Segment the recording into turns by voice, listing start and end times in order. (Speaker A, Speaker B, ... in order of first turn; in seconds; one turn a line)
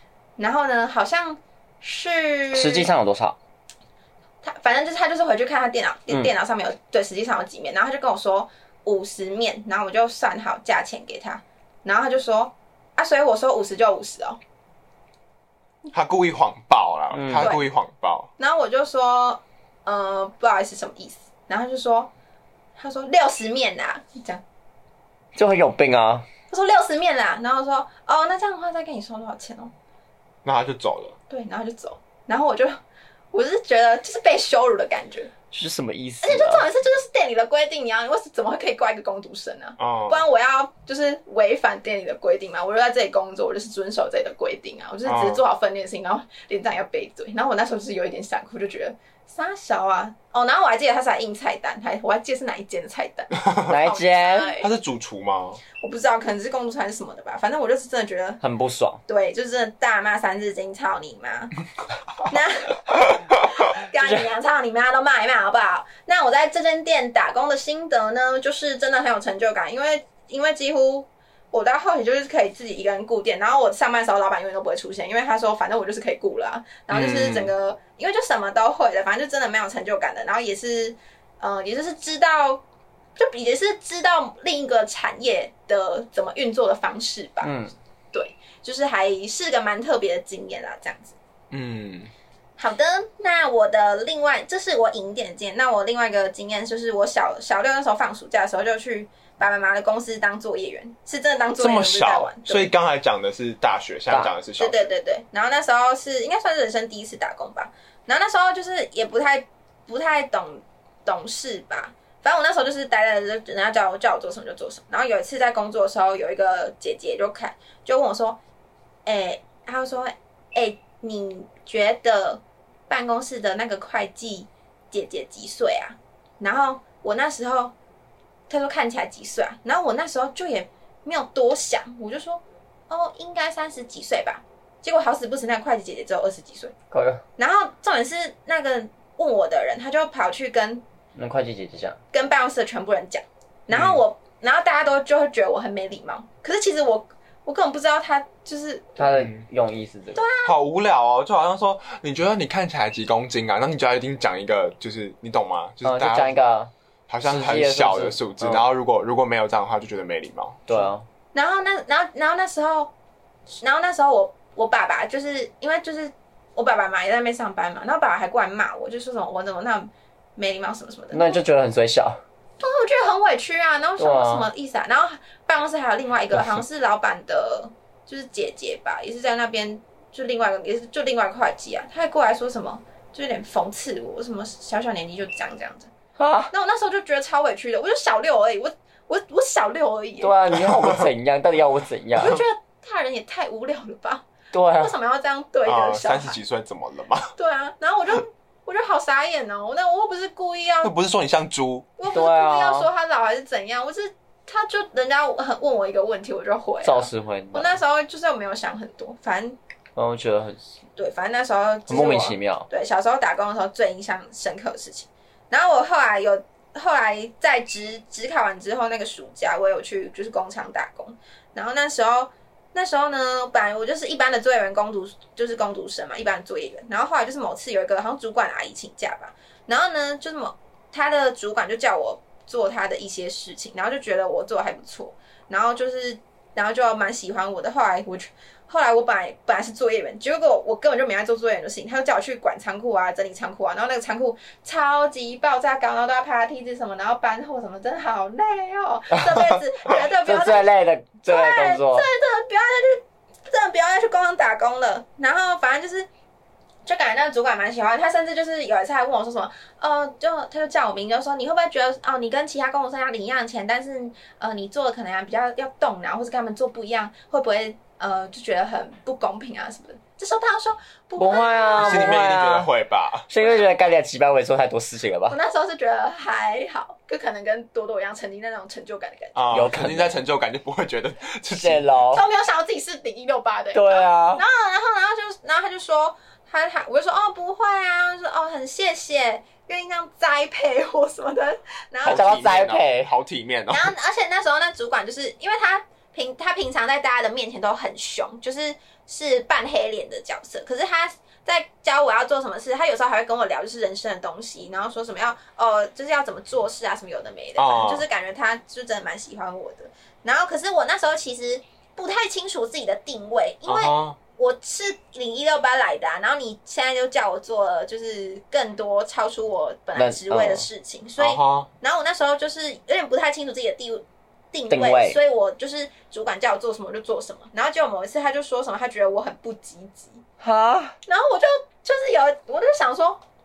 Speaker A: 0.4-2.9
Speaker B: 2.5-3.4
Speaker A: 4.4-14.4
Speaker C: 15.9-18.3
Speaker B: 17.1-17.5
Speaker A: 17.4-17.7
Speaker A: 18.4-22.1
Speaker A: 22.8-24.4
Speaker B: 25.3-26.3
Speaker A: 26.5-29.7
Speaker C: 30.4-31.1
Speaker A: 31.3-32.8
Speaker A: 33.3-35.3
Speaker B: 35.5-36.6
Speaker A: 36.2-54.7
Speaker C: 39.8-40.2
Speaker C: 45.0-45.4
Speaker B: 53.6-54.5
Speaker C: 54.6-55.6
Speaker A: 55.8-58.4
Speaker B: 58.4-59.0
Speaker A: 59.1-61.6
Speaker A: 62.2-63.0
Speaker A: 63.6-82.6
Speaker B: 64.0-64.2
Speaker C: 76.9-77.5
Speaker A: 83.2-87.5
Speaker B: 87.4-87.7
Speaker A: 88.1-91.2
Speaker C: 91.5-92.1
Speaker A: 92.6-102.7
Speaker C: 101.6-104.9
Speaker A: 104.6-118.4
Speaker A: 119.0-127.7
Speaker A: 128.5-136.7
Speaker B: 136.9-137.2
Speaker A: 137.4-140.8
Speaker B: 141.2-142.0
Speaker A: 142.1-149.0
Speaker C: 143.7-144.0
Speaker B: 149.0-150.2
Speaker C: 149.1-149.4
Speaker A: 150.1-150.5
Speaker C: 150.4-156.3
Speaker B: 155.8-156.7
Speaker C: 157.1-160.8
Speaker B: 157.2-158.6
Speaker B: 160.7-161.1
Speaker A: 161.3-162.9
Speaker A: 163.6-171.4
Speaker B: 171.1-172.2
Speaker A: 172.6-185.9
Speaker B: 174.0-174.5
Speaker B: 186.2-186.5
Speaker A: 186.5-190.3
Speaker B: 190.2-192.4
Speaker C: 190.7-191.0
Speaker A: 192.2-194.2
Speaker B: 194.5-194.9
Speaker A: 194.8-196.4
Speaker C: 195.6-197.3
Speaker A: 197.3-200.9
Speaker C: 200.8-201.9
Speaker A: 202.0-209.6
Speaker B: 202.1-202.9
Speaker B: 206.8-207.8
Speaker B: 209.9-210.6
Speaker A: 210.9-250.7
Speaker B: 211.9-212.7
Speaker B: 250.2-252.1
Speaker A: 251.2-256.1
Speaker A: 256.9-272.2
Speaker B: 271.2-272.7
Speaker C: 271.8-273.3
Speaker B: 273.3-275.4
Speaker A: 275.3-279.4
Speaker C: 279.3-281.9
Speaker B: 279.5-280.1
Speaker B: 281.5-282.2
Speaker A: 282.1-292.3
Speaker B: 283.7-284.4
Speaker B: 292.0-293.1
Speaker C: 292.0-293.9
Speaker A: 293.7-330.2
Speaker C: 307.6-308.0
Speaker C: 313.6-314.2
Speaker B: 319.9-320.6
Speaker C: 321.2-321.7
Speaker B: 324.7-325.2
Speaker B: 330.4-331.0
Speaker A: 331.1-333.2